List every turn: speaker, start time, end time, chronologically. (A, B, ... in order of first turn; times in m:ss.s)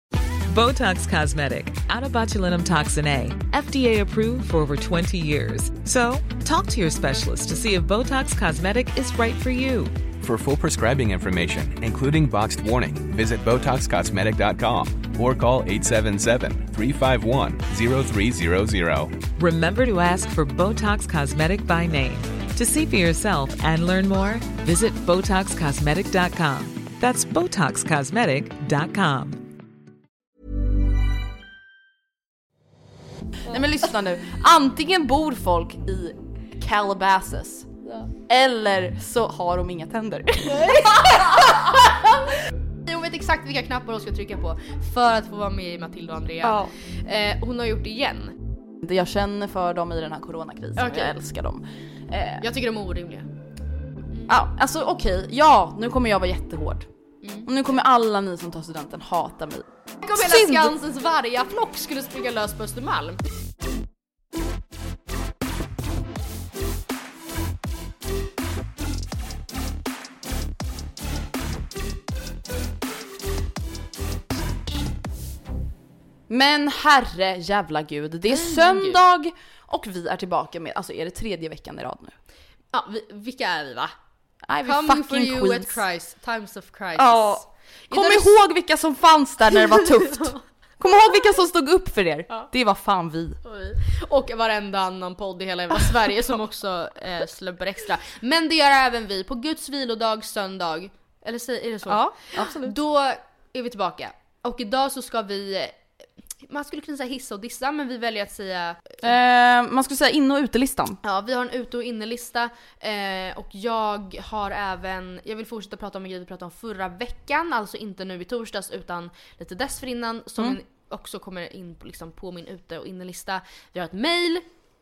0:00.5-0:10.0 A
0:10.2-0:19.2 B
0:19.4-0:29.4 A
0:33.5-0:37.7 C
0:38.3-0:41.6 C
0:40.5-0:42.2 D
0:42.9-0:48.4 D
0:46.4-0:46.7 C
0:48.8-0:52.4 C
0:50.8-0:51.2 D
0:52.4-0:53.3 D
0:54.3-0:56.9 C
0:57.2-0:57.5 D
0:57.4-1:00.8 C
1:00.0-1:03.2 D
1:16.3-1:22.2 C
1:18.3-1:19.0 D
1:22.7-1:23.9 D
1:24.5-1:25.8 C
1:24.6-1:28.3 D
1:27.0-1:33.4 C
1:29.6-1:30.4 D
1:33.4-1:45.8 D
1:41.9-1:42.8 C
1:46.4-1:49.0 D
1:49.0-1:51.0 C
1:51.0-2:04.5 D